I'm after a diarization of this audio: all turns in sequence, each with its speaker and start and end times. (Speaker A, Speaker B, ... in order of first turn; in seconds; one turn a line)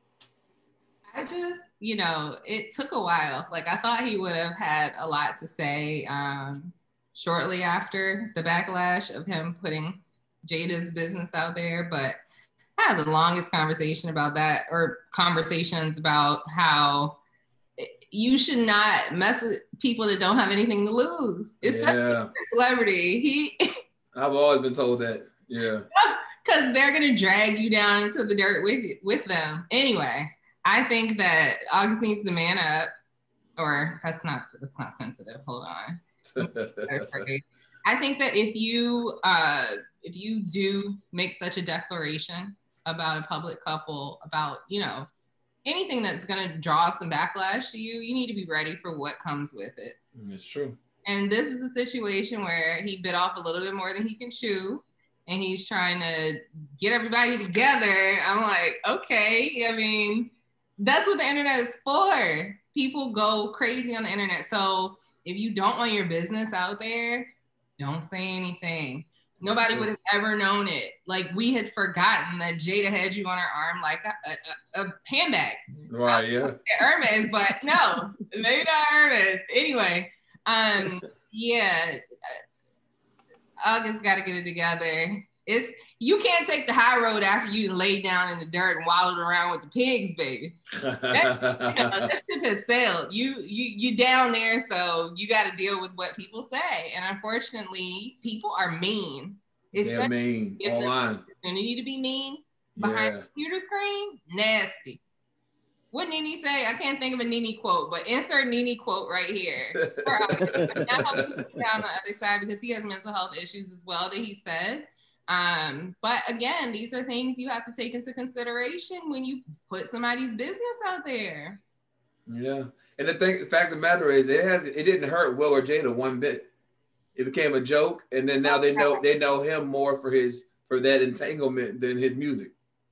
Speaker A: 1.1-12.2
Speaker A: 12.8-17.2
Speaker A: 17.8-23.6
Speaker B: 21.6-22.3
Speaker B: 24.1-25.9
Speaker A: 25.9-32.9
Speaker A: 33.6-45.1
Speaker B: 36.3-36.9
Speaker A: 45.6-50.0
Speaker B: 50.1-50.8
Speaker A: 51.0-82.4
Speaker B: 69.4-69.9
Speaker B: 75.9-76.6
Speaker A: 83.6-90.6
Speaker B: 90.8-92.1
Speaker A: 91.1-105.0
Speaker B: 99.8-101.2
Speaker B: 102.8-103.2
Speaker A: 105.9-121.6
Speaker B: 109.8-111.2
Speaker B: 122.3-126.5
Speaker B: 127.1-132.5
Speaker A: 128.4-129.0